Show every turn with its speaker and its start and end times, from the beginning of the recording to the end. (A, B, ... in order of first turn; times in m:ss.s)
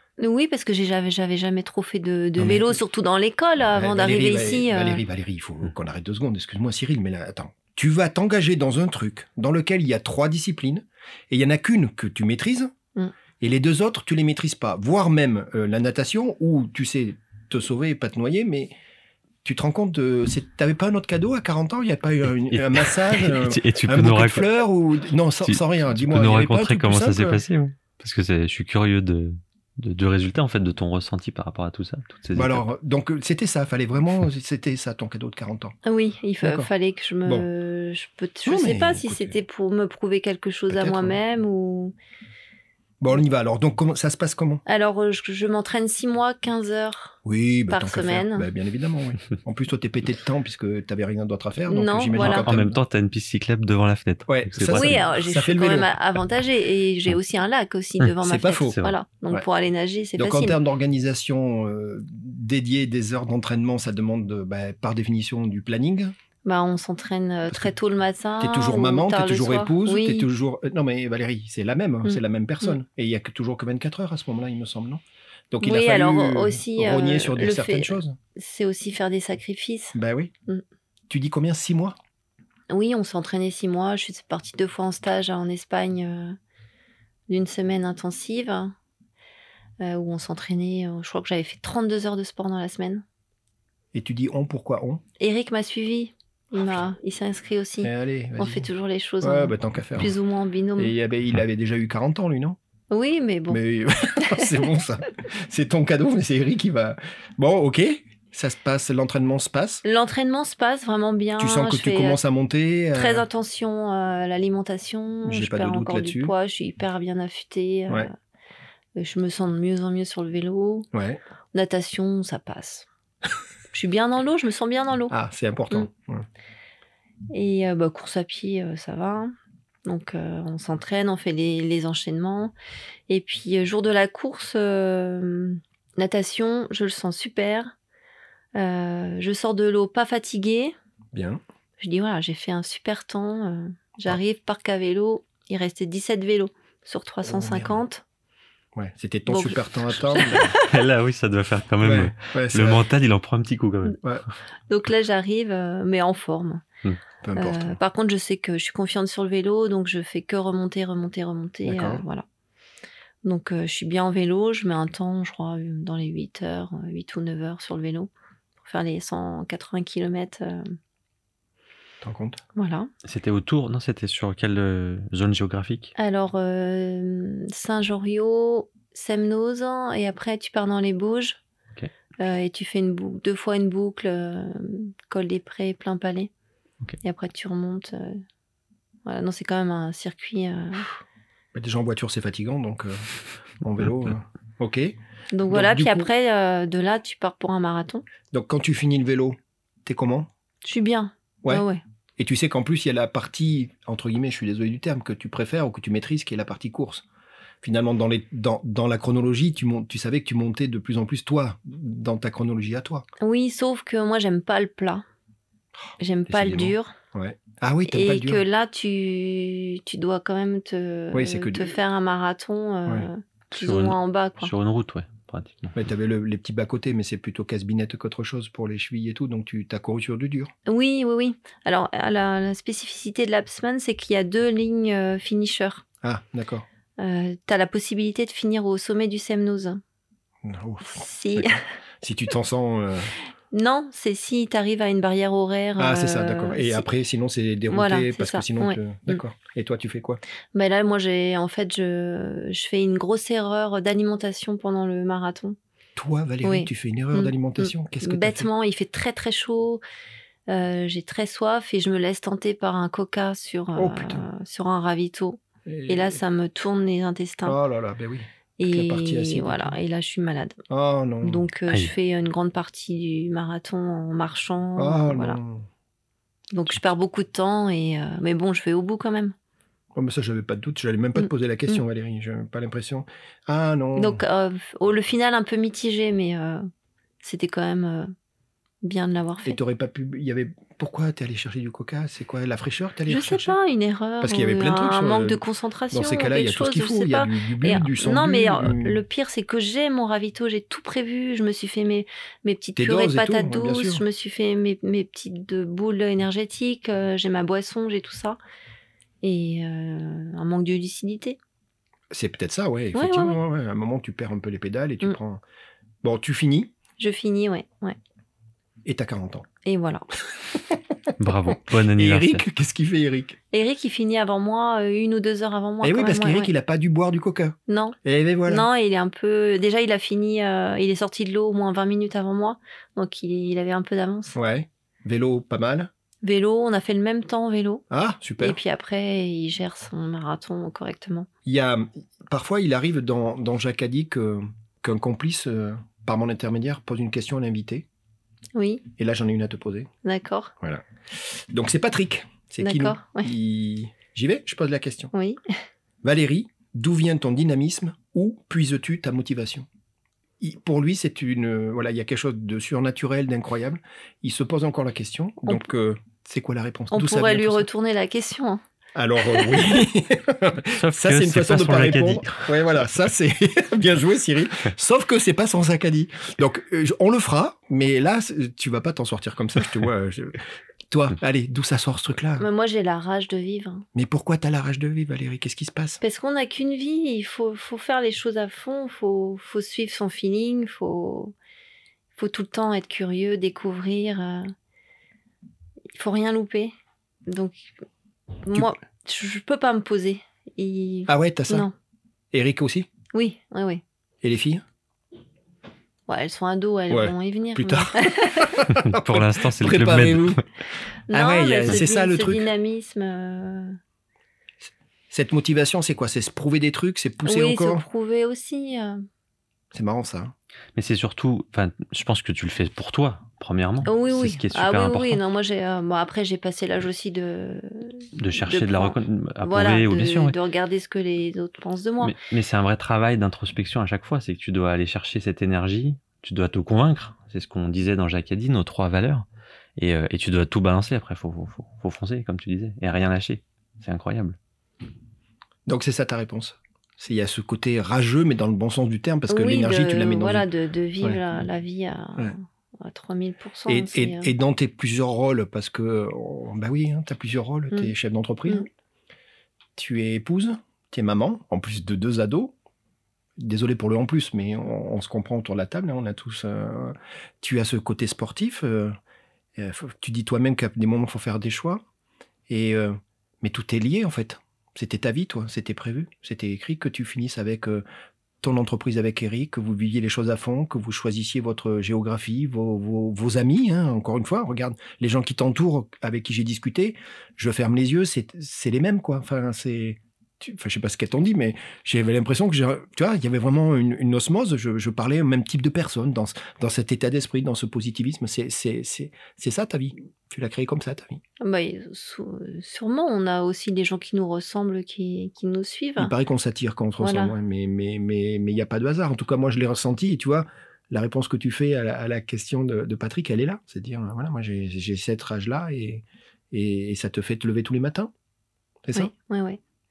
0:00.2-0:05.0 A
0:02.4-0:02.8 B
0:03.7-0:12.7 B
0:13.4-0:18.7 B
0:19.4-0:27.4 B
0:22.5-0:24.5 C
0:25.4-0:32.6 C
0:32.3-0:35.8 B
0:35.8-0:41.9 A
0:36.4-0:36.7 B
0:38.5-0:39.4 B
0:40.7-0:41.2 B
0:43.0-0:44.6 B
0:44.6-0:47.2 A
0:47.2-0:52.8 B
0:47.7-0:48.5 A
0:51.7-0:52.5 A
0:52.1-0:55.0 C
0:54.3-0:55.9 B
0:54.7-1:00.6 A
0:58.2-0:59.4 B
1:00.2-1:06.1 B
1:06.4-1:10.3 A
1:07.5-1:07.7 B
1:08.4-1:18.2 B
1:12.0-1:12.8 A
1:15.6-1:20.0 A
1:19.9-1:20.3 B
1:21.1-1:22.0 B
1:22.7-1:26.4 A
1:27.3-1:28.7 A
1:29.8-1:33.0 A
1:33.9-1:35.0 B
1:35.2-1:40.9 A
1:37.8-1:38.7 B
1:39.2-1:40.1 B
1:40.8-1:42.6 B
1:42.9-1:43.6 A
1:43.5-1:49.8 B
1:44.2-1:44.6 A
1:49.8-1:52.2 A
1:51.4-1:53.2 B
1:52.9-1:58.1 A
1:55.2-1:56.3 B
1:59.0-2:00.9 A
2:00.9-2:01.2 B
2:01.5-2:02.8 A
2:03.7-2:05.1 A
2:05.1-2:06.2 B
2:07.3-2:09.3 A
2:09.8-2:12.5 A
2:13.1-2:17.7 A
2:18.5-2:20.7 A
2:21.1-2:21.4 B
2:21.8-2:28.0 A
2:27.2-2:27.8 B
2:28.7-2:30.5 B
2:29.3-2:30.6 A
2:30.5-2:34.0 C
2:31.8-2:32.8 B
2:34.7-2:36.6 A
2:37.2-2:37.8 B
2:37.4-2:42.2 A
2:41.6-2:42.0 B
2:43.2-2:48.1 A
2:48.6-2:50.7 A
2:52.0-2:52.4 B
2:52.5-2:52.9 A
2:53.0-2:55.9 C
2:56.0-3:01.4 A
3:02.2-3:06.3 A
3:07.0-3:08.2 A
3:09.0-3:10.9 A
3:11.5-3:13.1 B
3:13.6-3:15.0 B
3:15.3-3:18.0 A
3:15.5-3:16.1 B
3:18.3-3:20.3 B
3:20.6-3:21.8 A
3:22.2-3:27.0 B
3:27.6-3:33.0 B
3:33.2-3:35.0 A
3:36.0-3:36.9 A
3:36.3-3:38.4 B
3:37.9-3:44.5 A
3:41.1-3:41.8 B
3:43.5-3:45.8 C
3:45.7-3:50.5 B
3:50.7-3:55.8 A
3:56.0-3:56.6 B
3:57.0-3:59.8 A
4:00.4-4:03.1 B
4:00.8-4:01.6 A
4:03.5-4:06.9 A
4:05.8-4:10.2 B
4:07.7-4:09.2 A
4:10.5-4:15.6 A
4:16.0-4:18.5 B
4:16.4-4:19.8 A
4:20.5-4:27.6 A
4:23.7-4:24.2 B
4:25.6-4:26.2 B
4:27.4-4:29.8 B
4:28.6-4:30.6 A
4:30.7-4:31.4 B
4:31.2-4:35.4 A
4:34.8-4:35.7 B
4:36.5-4:39.3 A
4:39.9-4:44.2 B
4:41.2-4:41.8 A
4:44.0-4:46.7 A
4:47.2-4:48.1 A
4:48.8-4:49.6 A
4:49.4-4:53.6 B
4:53.1-5:08.4 A
4:54.2-4:55.4 B
4:55.9-4:59.0 B
5:02.8-5:04.0 B
5:09.2-5:11.4 A
5:12.1-5:15.4 B
5:12.9-5:13.4 A
5:16.0-5:16.7 B
5:17.0-5:18.0 A
5:18.8-5:19.5 B
5:19.6-5:20.1 A
5:20.7-5:23.4 B
5:21.2-5:22.5 C
5:23.5-5:26.5 A
5:25.8-5:28.7 B
5:27.7-5:34.4 A
5:34.3-5:35.9 B
5:36.2-5:37.8 A
5:37.9-5:38.6 B
5:38.4-5:41.3 A
5:41.4-5:47.8 B
5:48.5-5:48.8 A
5:49.0-5:49.9 B
5:50.0-5:50.5 A
5:50.6-5:55.1 B
5:52.6-5:53.3 A
5:55.1-5:55.4 A
5:56.0-5:59.6 B
6:00.4-6:07.7 B
6:06.9-6:08.6 A
6:08.9-6:22.4 B
6:09.3-6:09.6 A
6:10.8-6:12.5 C
6:22.4-6:23.8 A
6:23.9-6:26.0 B
6:26.0-6:31.3 A
6:32.2-6:34.5 A
6:35.9-6:36.7 A
6:37.3-6:37.7 A
6:38.4-6:41.7 A
6:41.1-6:41.6 B
6:42.3-6:42.9 B
6:43.1-6:43.8 A
6:44.2-6:44.6 B
6:46.1-6:48.6 A
6:46.9-6:50.4 B
6:48.7-6:50.4 C
6:51.1-6:53.8 A
6:51.1-6:52.5 B
6:55.1-6:57.8 B
6:57.2-6:59.0 A
6:59.7-7:00.3 B
7:00.8-7:05.2 C
7:03.8-7:12.1 A
7:08.2-7:10.4 C
7:12.0-7:19.2 C
7:19.8-7:24.4 C
7:25.6-7:30.5 B
7:29.3-7:34.3 A
7:33.7-7:38.7 B
7:39.8-7:42.5 B
7:43.4-7:48.9 B
7:49.6-7:51.8 B
7:52.5-7:57.8 B
7:58.4-8:21.2 B
8:21.4-8:26.1 A
8:26.0-8:38.1 B
8:27.0-8:27.3 A
8:38.8-8:39.1 B
8:38.9-8:39.6 A